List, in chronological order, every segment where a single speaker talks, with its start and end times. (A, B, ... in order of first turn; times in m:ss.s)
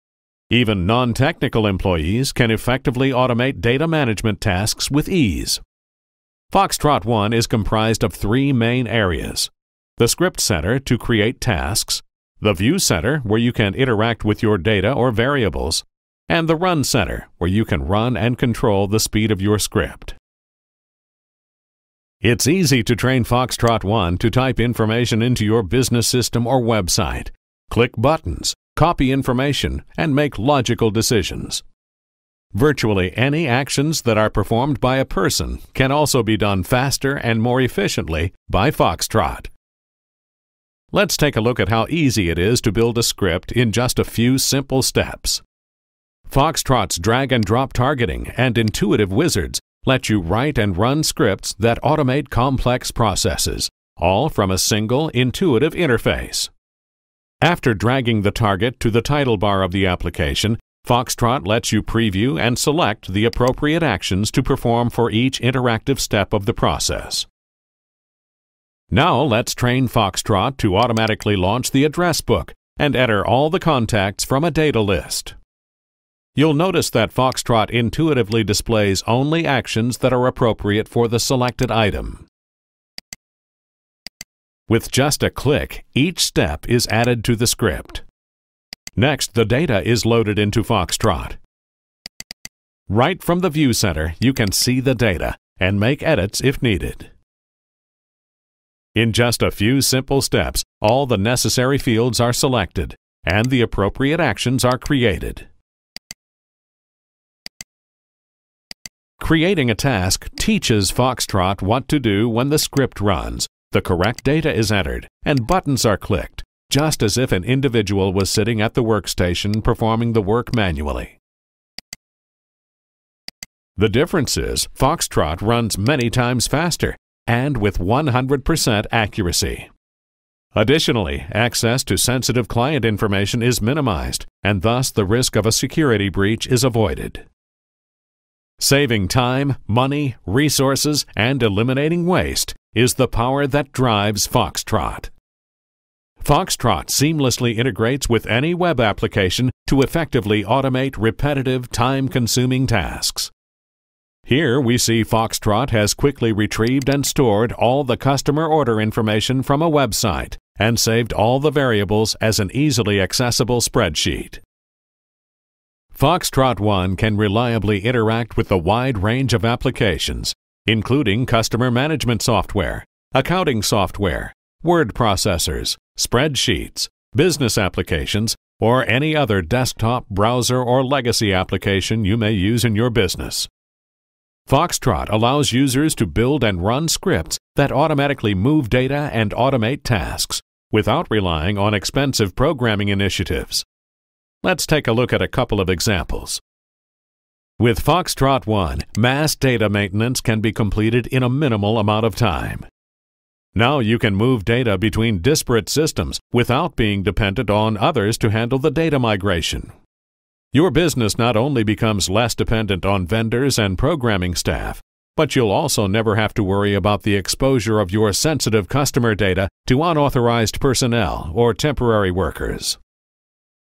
0:00.5-0:05.6 A
0:06.5-0:20.2 A
0:22.2-0:31.6 A
0:32.5-0:39.5 A
0:40.9-0:45.4 A
0:46.3-0:56.5 A
0:57.4-1:07.3 A
1:08.9-1:15.4 A
1:16.3-1:22.3 A
1:24.7-1:28.0 A
1:29.0-1:31.4 A
1:32.9-1:37.1 A
1:38.9-1:45.5 A
1:49.2-2:01.2 A
2:03.8-2:09.7 A
2:10.5-2:17.2 A
2:18.6-2:25.1 A
2:26.2-2:33.3 A
2:34.2-2:44.4 A
2:45.9-3:03.5 A
3:04.5-3:13.7 A
3:14.4-3:16.4 A
3:17.6-3:22.7 A
3:23.5-3:29.7 A
3:30.5-3:42.8 A